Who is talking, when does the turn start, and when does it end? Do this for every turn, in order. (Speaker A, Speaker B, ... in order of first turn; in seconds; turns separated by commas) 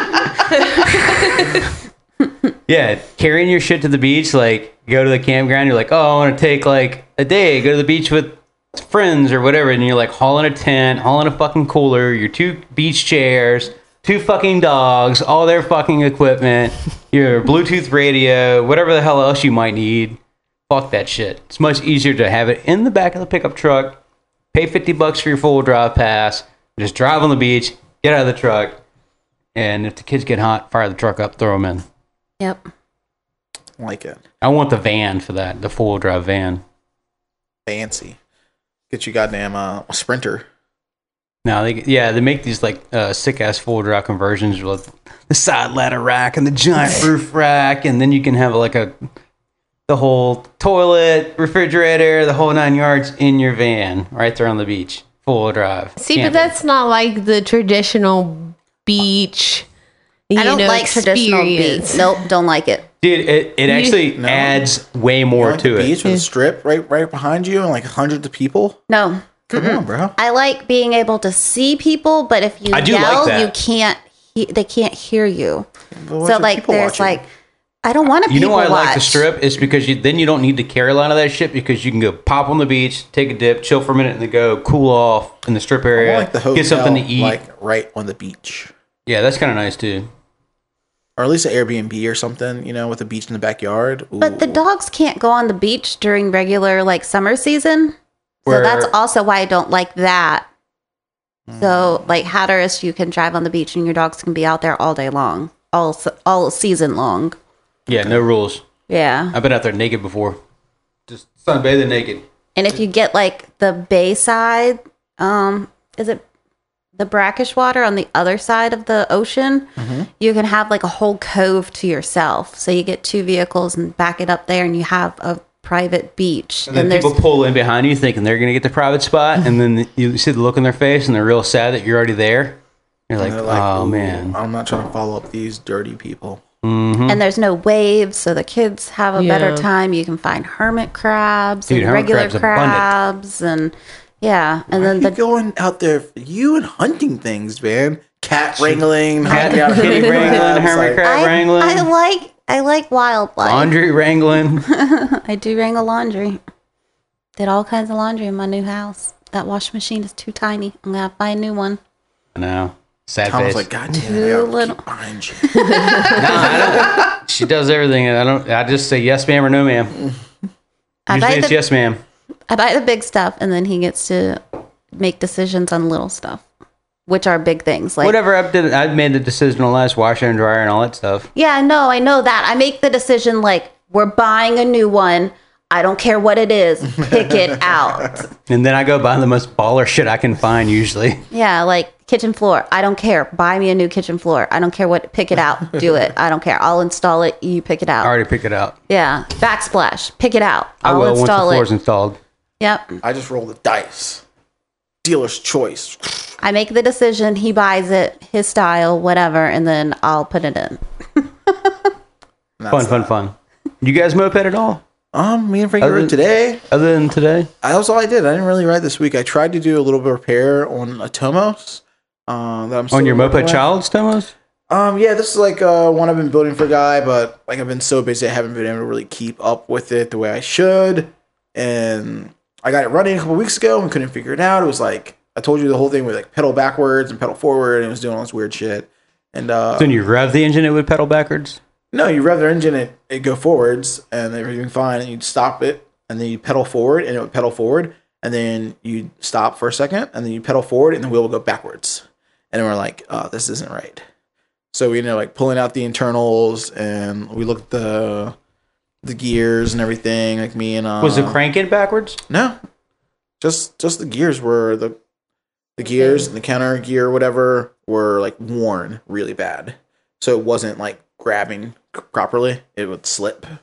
Speaker A: 0.5-1.6, Speaker B: 2.7-24.0, Speaker B: 24.5-28.8, Speaker B: 29.5-31.8, Speaker C: 33.8-34.2, Speaker B: 34.4-36.6, Speaker C: 37.6-38.2, Speaker C: 38.9-40.5, Speaker B: 41.4-48.9, Speaker B: 49.9-56.5, Speaker A: 56.0-59.6, Speaker A: 60.3-62.0, Speaker D: 60.4-62.9, Speaker B: 63.0-66.0, Speaker A: 63.7-64.0, Speaker C: 64.2-64.7, Speaker C: 65.3-68.8, Speaker D: 68.9-75.7, Speaker C: 69.5-70.2, Speaker B: 72.7-73.5, Speaker C: 75.9-77.2, Speaker D: 76.2-77.3, Speaker D: 77.8-79.2, Speaker B: 78.3-87.4, Speaker C: 85.9-88.7, Speaker B: 89.0-90.1, Speaker C: 91.2-94.6, Speaker D: 94.2-98.0, Speaker B: 98.5-98.9, Speaker D: 98.5-100.5, Speaker C: 101.5-102.0, Speaker D: 101.6-107.4, Speaker B: 107.9-108.6, Speaker C: 107.9-108.2, Speaker D: 108.9-109.3, Speaker B: 109.3-110.4, Speaker B: 111.1-112.2, Speaker D: 112.5-116.2, Speaker D: 117.0-127.2, Speaker C: 119.8-120.1, Speaker B: 126.7-134.3, Speaker C: 133.2-136.4, Speaker B: 136.6-137.2, Speaker D: 137.1-145.2, Speaker A: 139.2-139.6, Speaker B: 141.7-142.9, Speaker C: 144.7-151.0, Speaker B: 148.6-151.9, Speaker D: 151.0-153.7, Speaker B: 153.4-154.7, Speaker D: 154.7-156.4, Speaker D: 157.4-161.8, Speaker B: 162.3-163.6, Speaker C: 163.2-167.0, Speaker D: 164.0-164.8, Speaker D: 165.5-166.5, Speaker B: 166.1-169.9, Speaker D: 171.1-171.6, Speaker B: 171.1-172.0, Speaker D: 172.5-174.4, Speaker D: 174.9-176.4, Speaker D: 177.1-178.2, Speaker B: 178.0-181.3, Speaker D: 181.3-188.3, Speaker B: 188.5-191.2, Speaker D: 191.3-198.1, Speaker B: 198.0-198.7, Speaker D: 198.9-201.7, Speaker B: 200.8-202.2, Speaker D: 202.6-203.0, Speaker C: 203.0-204.2, Speaker C: 205.0-206.3, Speaker D: 206.4-211.7, Speaker C: 212.6-213.1, Speaker B: 212.7-214.8, Speaker C: 215.1-216.6, Speaker B: 215.8-216.2, Speaker B: 216.7-217.5, Speaker C: 217.6-223.7, Speaker B: 222.9-224.3, Speaker C: 224.7-240.0, Speaker B: 239.8-241.6, Speaker C: 241.9-254.0, Speaker C: 254.7-258.3, Speaker C: 259.0-261.4, Speaker B: 261.0-262.2, Speaker C: 262.3-262.6, Speaker C: 263.4-265.0, Speaker C: 265.8-273.5